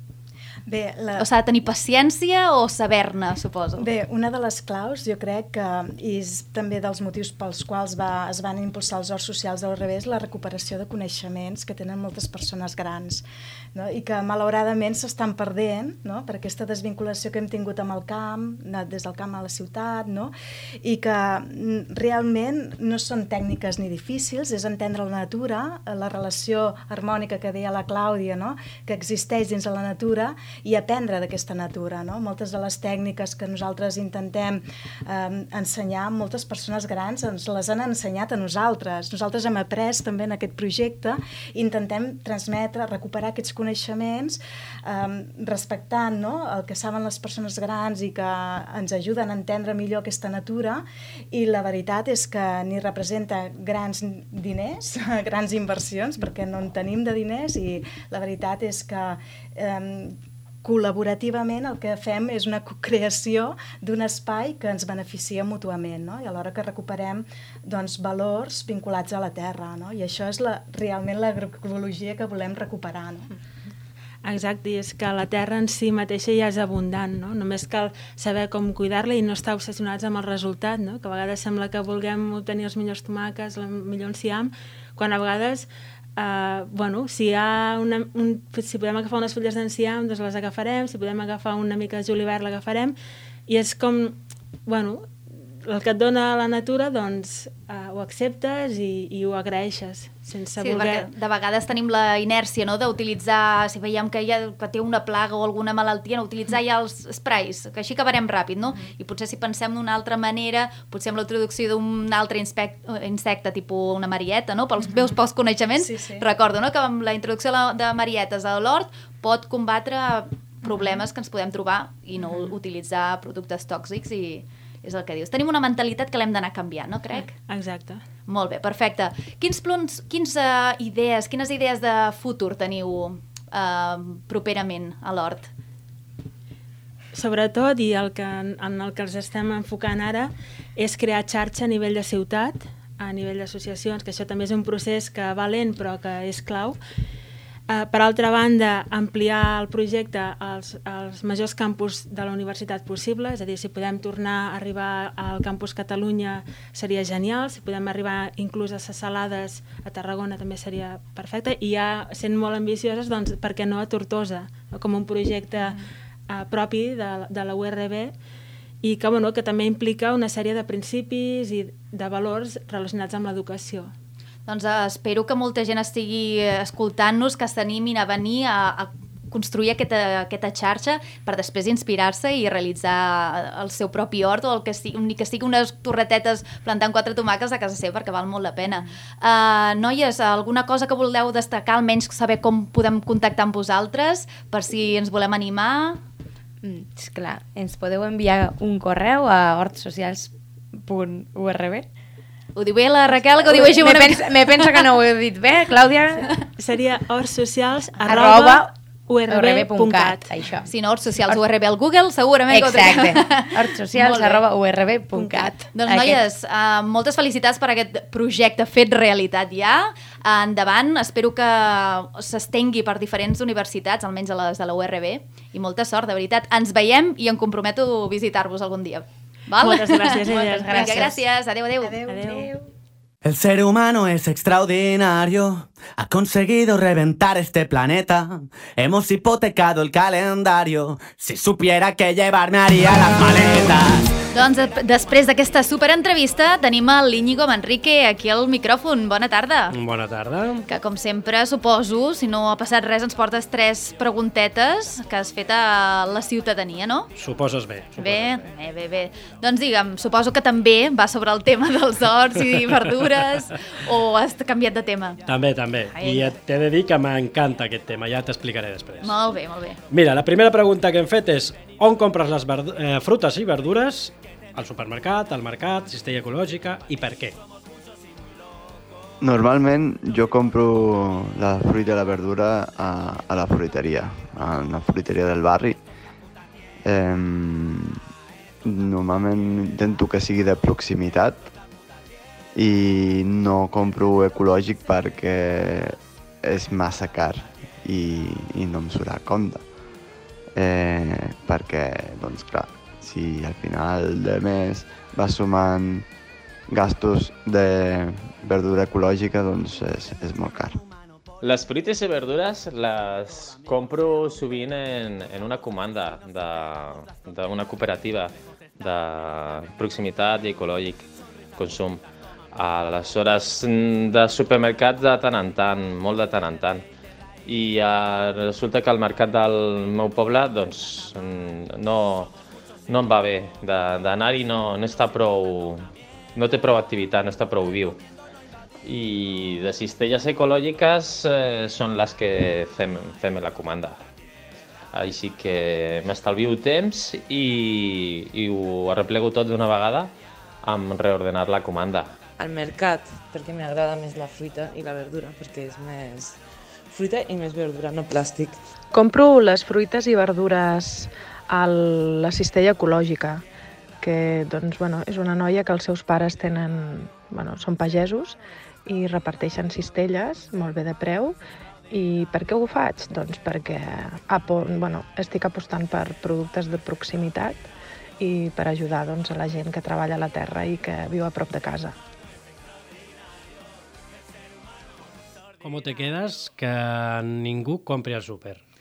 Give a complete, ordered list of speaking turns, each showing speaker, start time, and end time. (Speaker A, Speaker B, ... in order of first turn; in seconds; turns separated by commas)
Speaker A: 0.7-1.2, Speaker B: 1.2-3.9, Speaker A: 3.8-73.3, Speaker C: 74.2-93.0, Speaker C: 93.5-101.1, Speaker B: 100.6-127.3, Speaker A: 115.8-116.3, Speaker C: 127.4-128.0, Speaker B: 128.3-135.5, Speaker C: 137.1-146.8, Speaker C: 147.7-165.8, Speaker C: 166.3-168.1, Speaker C: 168.8-173.9, Speaker B: 174.5-196.0, Speaker D: 196.6-201.8, Speaker B: 202.5-204.8, Speaker D: 203.4-206.3, Speaker C: 206.6-210.3, Speaker D: 208.0-208.7, Speaker D: 209.3-210.7, Speaker B: 210.7-214.4, Speaker D: 212.5-216.2, Speaker C: 215.1-215.5, Speaker B: 215.7-232.1, Speaker C: 229.6-231.2, Speaker D: 230.1-231.2, Speaker A: 231.8-232.5, Speaker C: 232.1-232.5, Speaker E: 233.2-244.1, Speaker B: 244.3-249.7, Speaker F: 249.7-250.6, Speaker B: 250.7-257.1, Speaker F: 257.1-258.4, Speaker B: 258.0-265.2, Speaker F: 265.3-269.2, Speaker B: 265.9-266.3, Speaker B: 269.0-269.8, Speaker F: 269.9-277.4, Speaker G: 279.2-285.8, Speaker G: 286.8-288.0, Speaker G: 288.6-291.5, Speaker G: 292.6-299.6, Speaker G: 300.5-306.1, Speaker G: 306.7-310.8, Speaker H: 311.4-322.0, Speaker H: 322.5-326.8, Speaker H: 327.4-332.3, Speaker H: 332.9-338.0, Speaker H: 338.8-344.0, Speaker H: 344.9-350.1, Speaker H: 350.6-352.1, Speaker I: 352.4-358.6, Speaker J: 358.9-363.4, Speaker J: 364.0-371.4, Speaker J: 371.9-381.9, Speaker F: 385.6-388.6